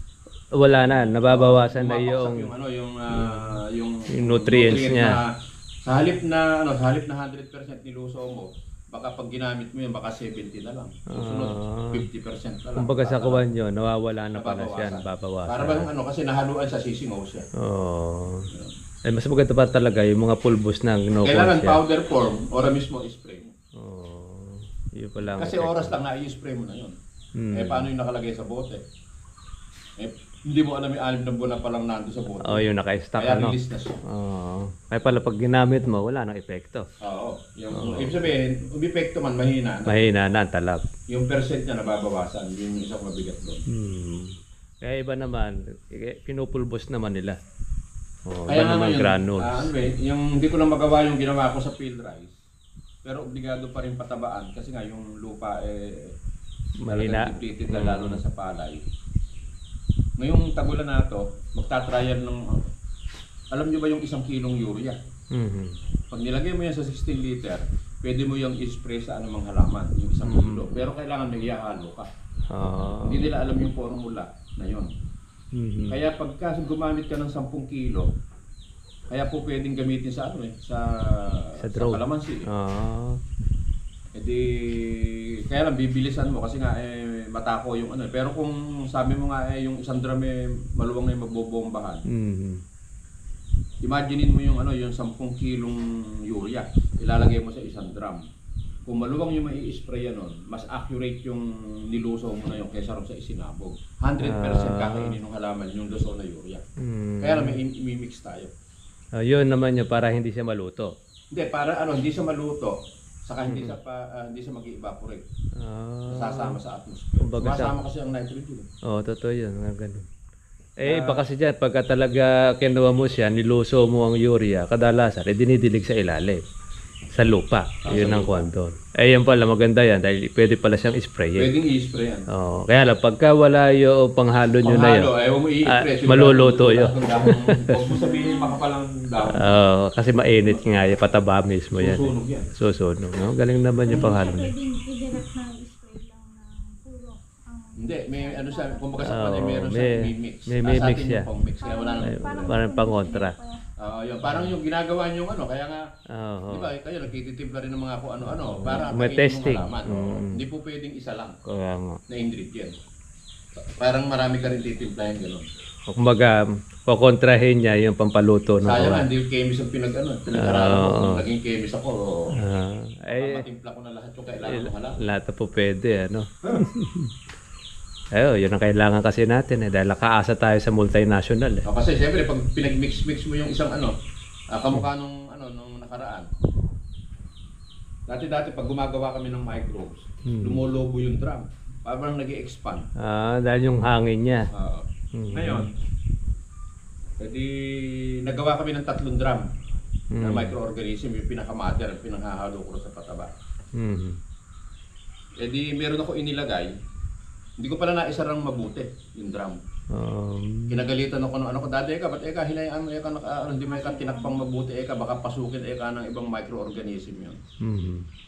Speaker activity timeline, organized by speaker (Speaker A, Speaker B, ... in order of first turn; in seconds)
Speaker A: 0.6-2.5, 3.2-3.5, 4.1-5.2, 11.1-12.1, 12.8-15.9, 17.6-18.5, 19.1-21.8, 23.8-25.9, 27.4-27.9, 32.4-36.9, 37.7-38.2, 39.9-40.9, 43.7-47.4, 48.3-49.7, 56.8-58.2, 65.3-65.8, 70.3-70.7, 72.5-73.3, 75.5-76.0, 81.6-83.2, 92.1-92.6, 104.2-105.2, 106.8-107.6, 109.2-111.0, 113.5-113.8, 115.6-116.6, 117.2-117.8, 118.9-120.1, 120.8-126.4, 127.1-131.5, 132.3-135.1, 135.7-137.8, 139.3-144.5, 149.0-151.3, 152.0-153.4, 154.3-154.5, 156.2-156.7, 158.4-160.4, 161.5-162.0, 165.9-169.1, 170.3-171.2, 172.4-173.4, 174.5-177.1, 178.1-181.7, 190.3-190.6, 193.0-194.5, 195.1-195.7, 200.1-200.5, 203.8-204.2, 209.9-210.8, 217.6-218.1
Speaker B: 1.1-5.3, 5.8-13.5, 14.3-17.5, 18.5-18.8, 21.2-23.5, 25.2-27.0, 27.5-28.8, 30.0-34.0, 37.0-40.1, 41.1-43.6, 48.5-52.4, 53.0-56.1, 56.9-58.9, 60.2-62.6, 63.5-65.0, 66.1-72.1, 73.0-74.9, 75.9-78.1, 79.1-82.5, 84.2-92.0, 93.8-98.3, 98.9-106.6, 107.2-108.5, 111.3-115.2, 116.1-118.7, 120.8-121.3, 127.8-128.5, 131.4-132.3, 134.6-139.6, 140.4-140.7, 141.8-142.5, 147.8-152.6, 153.8-155.8, 156.5-161.4, 162.1-162.7, 163.8-165.5, 168.6-172.2, 173.2-175.0, 181.7-183.9, 184.5-186.3, 188.1-192.9, 194.5-195.7, 197.2-199.4, 200.2-203.3, 205.4-206.7, 207.6-209.6, 210.7-217.4
Speaker C: 137.9-138.6, 143.9-149.0, 151.6-153.6, 213.7-214.4